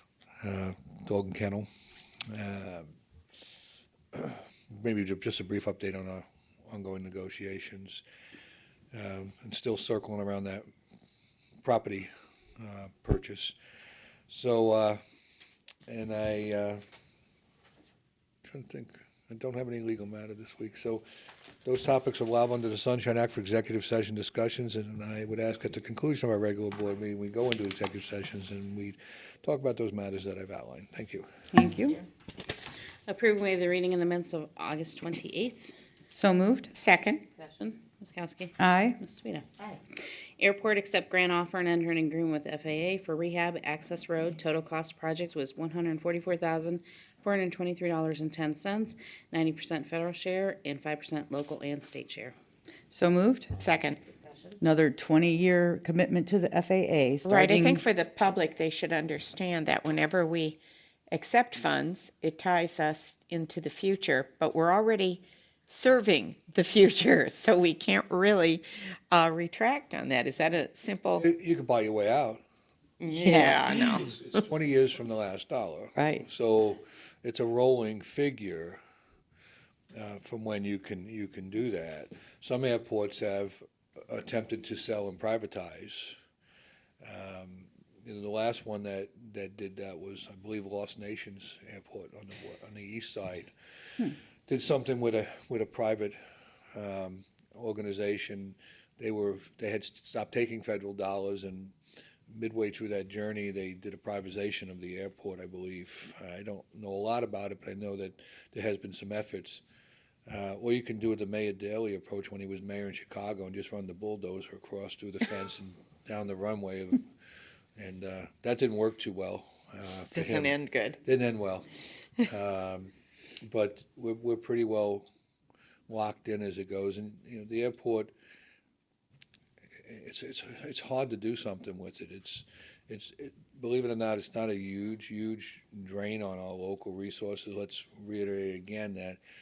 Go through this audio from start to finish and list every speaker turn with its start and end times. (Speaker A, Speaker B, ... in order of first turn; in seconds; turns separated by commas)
Speaker A: 0.4-1.7, Speaker A: 2.3-2.9, Speaker A: 4.1-8.0, Speaker A: 8.9-10.7, Speaker A: 11.6-13.6, Speaker A: 14.3-15.0, Speaker A: 15.9-16.8, Speaker A: 18.4-21.0, Speaker A: 21.6-31.3, Speaker B: 31.5-32.0, Speaker C: 33.1-35.7, Speaker B: 36.1-36.7, Speaker D: 36.7-37.2, Speaker C: 37.2-39.5, Speaker B: 38.6-39.0, Speaker C: 40.4-52.3, Speaker B: 52.9-53.5, Speaker D: 53.5-54.0, Speaker C: 54.0-54.6, Speaker B: 54.6-57.8, Speaker D: 57.2-60.6, Speaker D: 61.1-71.2, Speaker A: 71.2-72.4, Speaker D: 73.0-74.1, Speaker A: 73.4-78.8, Speaker B: 76.0-76.2, Speaker A: 79.9-86.2, Speaker A: 87.0-93.5, Speaker A: 94.1-96.2, Speaker A: 96.7-101.7, Speaker A: 102.3-109.6, Speaker A: 110.3-117.1, Speaker A: 117.8-121.7, Speaker D: 120.1-121.0, Speaker A: 122.2-125.1, Speaker A: 125.9-128.1, Speaker A: 129.8-139.2